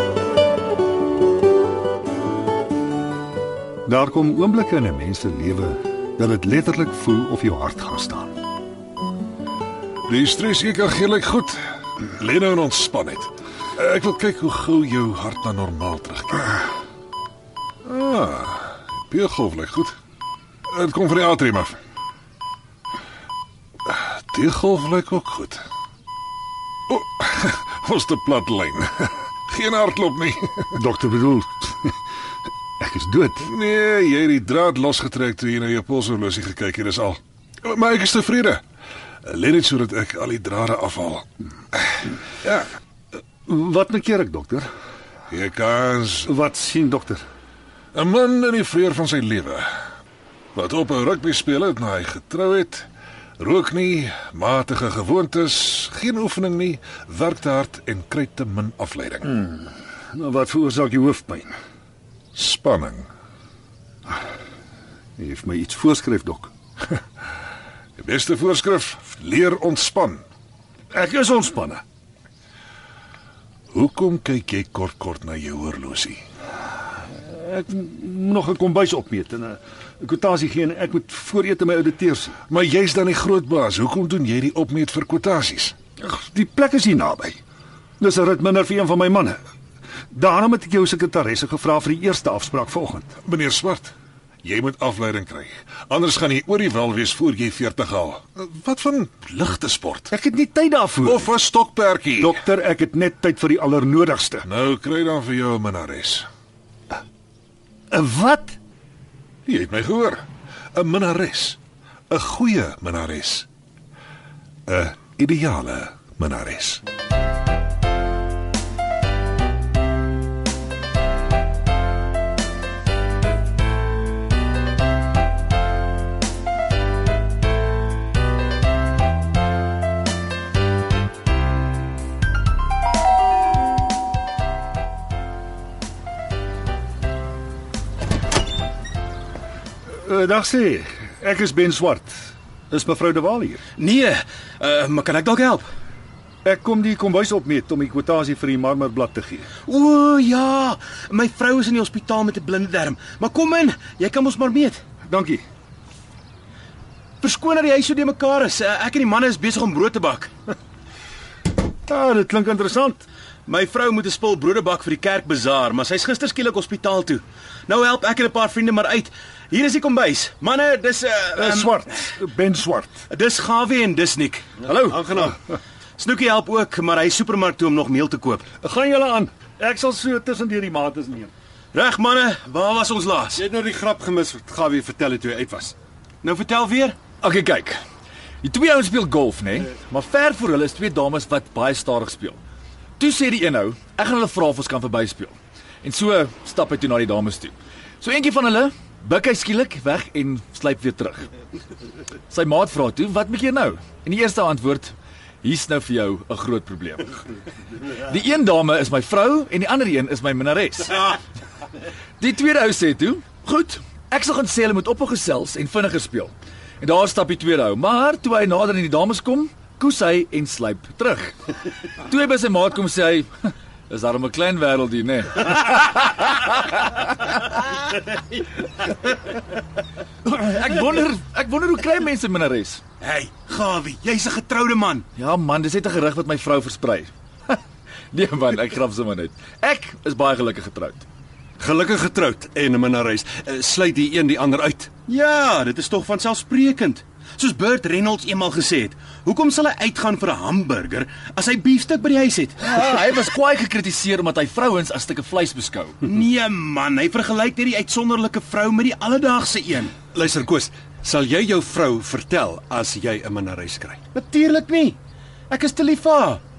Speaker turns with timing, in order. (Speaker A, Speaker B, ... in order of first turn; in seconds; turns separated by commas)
Speaker A: 3.9-8.4, Speaker B: 10.1-11.6, Speaker B: 12.2-16.6, Speaker B: 17.9-20.0, Speaker B: 20.7-21.8, Speaker B: 23.9-25.6, Speaker B: 26.9-30.7, Speaker A: 30.7-32.0, Speaker A: 32.8-33.5, Speaker B: 33.4-38.6, Speaker B: 39.2-41.8, Speaker B: 42.4-42.7, Speaker A: 43.5-44.7, Speaker B: 45.3-46.3, Speaker A: 46.2-47.2, Speaker B: 47.9-49.7, Speaker B: 50.5-52.9, Speaker B: 53.4-59.4, Speaker A: 59.3-61.5, Speaker B: 62.4-63.1, Speaker A: 65.2-66.5, Speaker B: 68.0-70.2, Speaker A: 70.9-71.8, Speaker B: 73.7-76.2, Speaker A: 77.2-82.4, Speaker B: 82.5-85.8, Speaker A: 86.0-87.4, Speaker A: 88.0-89.4, Speaker A: 90.1-93.2, Speaker B: 93.2-100.1, Speaker A: 100.1-101.3, Speaker B: 101.0-102.4, Speaker A: 102.2-104.5, Speaker B: 104.5-106.3, Speaker A: 107.9-108.6, Speaker B: 109.5-110.2, Speaker B: 110.7-111.6, Speaker B: 112.1-113.5, Speaker B: 114.7-116.8, Speaker A: 139.9-143.6, Speaker C: 143.8-145.7, Speaker A: 146.4-149.5, Speaker C: 149.7-154.8, Speaker A: 155.1-155.4, Speaker C: 157.2-160.3, Speaker A: 161.9-163.0, Speaker C: 163.5-171.8, Speaker A: 171.4-173.0, Speaker C: 173.1-174.5, Speaker D: 174.6-175.4, Speaker E: 174.7-175.0, Speaker C: 176.0-178.5, Speaker A: 178.6-181.3, Speaker C: 181.7-183.4, Speaker D: 183.3-185.8, Speaker C: 186.2-187.0, Speaker E: 187.2-187.8, Speaker E: 188.4-192.4, Speaker E: 193.0-201.3, Speaker E: 202.3-207.2, Speaker E: 207.9-211.2, Speaker E: 212.2-221.3, Speaker E: 222.0-227.4, Speaker E: 230.2-232.8, Speaker C: 233.0-235.1, Speaker E: 235.2-237.6, Speaker E: 238.1-241.1, Speaker D: 241.6-244.9, Speaker C: 245.1-252.6, Speaker E: 252.6-256.0, Speaker C: 256.1-260.0, Speaker D: 260.1-264.0, Speaker C: 264.1-265.0, Speaker C: 265.5-266.4